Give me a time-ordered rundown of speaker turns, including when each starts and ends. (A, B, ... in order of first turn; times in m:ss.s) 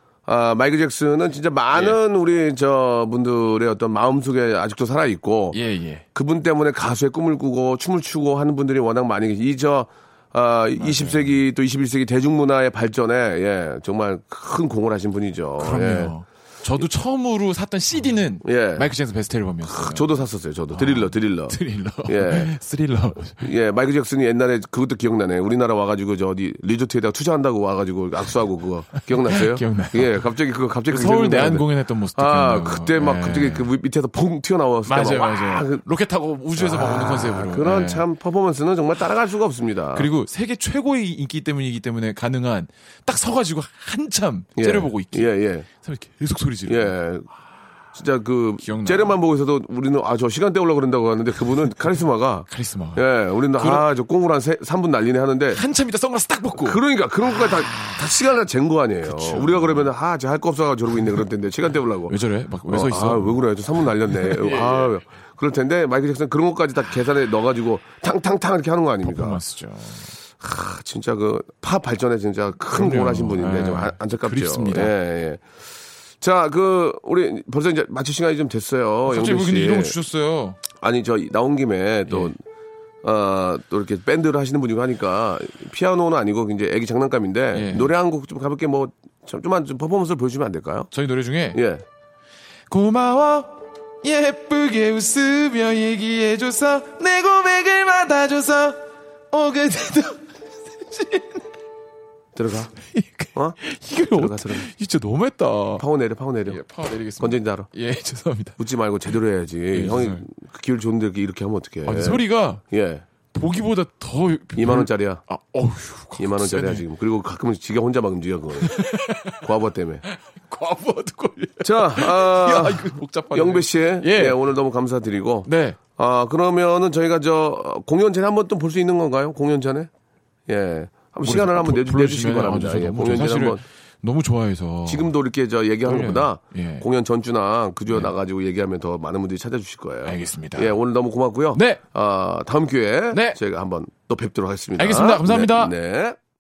0:00.3-0:05.6 A
0:01.7-0:02.0 B
0:05.5-0:06.0 B
0:06.2-0:16.1 A
0:10.8-0:11.4 B
0:15.6-0:20.1 B
0:18.4-0:18.9 A
0:19.6-0:22.5 A
0:20.7-0:23.4 B
0:23.4-0:35.8 A
0:29.2-0:30.3 B
0:30.9-0:33.7 B
0:34.9-0:38.0 B
0:36.6-0:40.1 A
0:40.0-0:47.0 B
0:44.6-0:45.7 A
0:46.7-0:47.3 A
0:47.9-0:55.6 A
0:48.6-0:49.2 B
0:52.5-0:53.9 B
0:55.5-0:56.8 B
0:56.6-1:02.2 A
0:57.4-0:58.0 B
0:59.1-0:59.9 B
1:02.1-1:04.9 B
1:02.7-1:09.4 A
1:09.0-1:10.1 B
1:10.4-1:15.5 A
1:12.7-1:15.0 B
1:16.2-1:20.0 A
1:19.0-1:20.6 B
1:20.7-1:22.4 A
1:23.0-1:30.9 A
1:27.5-1:27.9 B
1:30.9-1:31.6 B
1:31.5-1:31.8 A
1:32.7-1:38.8 B
1:39.3-1:41.4 B
1:42.4-1:42.7 A
1:42.8-1:45.8 B
1:44.1-1:44.7 A
1:45.8-1:46.6 A
1:46.5-1:48.6 B
1:47.2-1:47.7 A
1:48.6-1:53.0 A
1:49.7-1:50.2 B
1:51.8-1:52.6 B
1:53.3-1:56.8 B
1:54.6-1:55.2 A
1:56.2-1:58.8 A
1:58.6-1:59.4 B
1:59.4-2:00.0 A
2:00.3-2:04.4 B
2:01.6-2:09.9 A
2:05.5-2:05.8 B
2:10.5-2:13.6 A
2:11.2-2:15.1 B
2:14.9-2:26.2 A
2:15.8-2:16.8 B
2:20.0-2:20.7 B
2:21.5-2:21.8 B
2:23.1-2:23.4 B
2:24.8-2:25.7 B